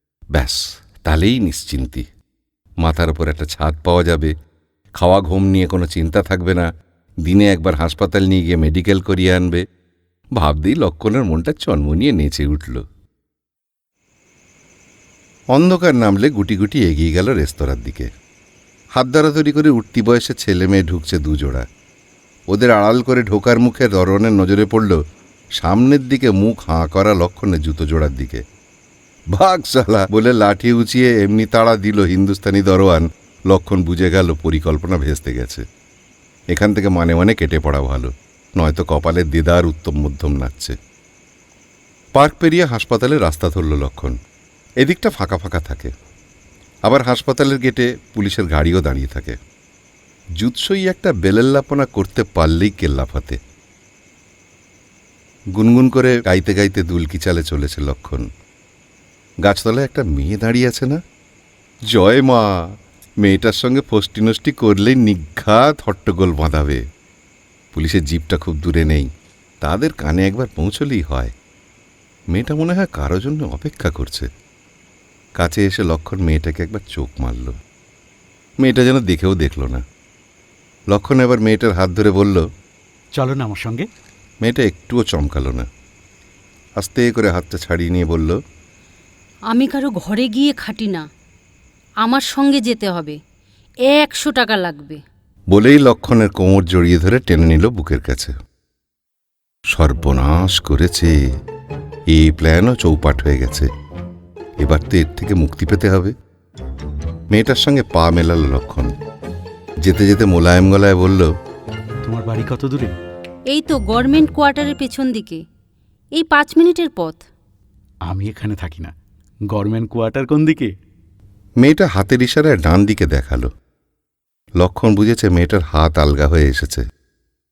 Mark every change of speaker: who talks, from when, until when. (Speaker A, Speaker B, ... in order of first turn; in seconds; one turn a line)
Speaker A: 0.3-2.1
Speaker A: 2.8-4.3
Speaker A: 5.0-6.7
Speaker A: 7.2-9.6
Speaker A: 10.4-12.8
Speaker A: 15.5-18.1
Speaker A: 18.9-21.6
Speaker A: 22.5-25.0
Speaker A: 25.6-28.4
Speaker A: 29.3-35.6
Speaker A: 36.5-40.8
Speaker A: 42.1-44.2
Speaker A: 44.8-45.9
Speaker A: 46.9-49.4
Speaker A: 50.4-53.4
Speaker A: 55.5-58.3
Speaker A: 59.4-61.0
Speaker A: 61.9-66.8
Speaker A: 67.7-69.1
Speaker A: 69.6-71.3
Speaker A: 72.3-74.3
Speaker A: 75.4-77.5
Speaker A: 78.6-79.8
Speaker A: 80.9-82.4
Speaker B: 83.2-83.9
Speaker A: 84.4-85.7
Speaker A: 86.8-88.4
Speaker C: 89.5-91.0
Speaker C: 92.0-93.2
Speaker C: 93.9-95.0
Speaker A: 95.5-98.3
Speaker A: 99.7-101.1
Speaker A: 102.1-103.7
Speaker A: 104.6-106.1
Speaker A: 107.3-108.9
Speaker A: 109.8-111.3
Speaker B: 112.0-112.9
Speaker C: 113.5-115.4
Speaker C: 116.1-117.2
Speaker B: 118.1-118.9
Speaker B: 119.5-120.7
Speaker A: 121.6-123.5
Speaker A: 124.6-126.8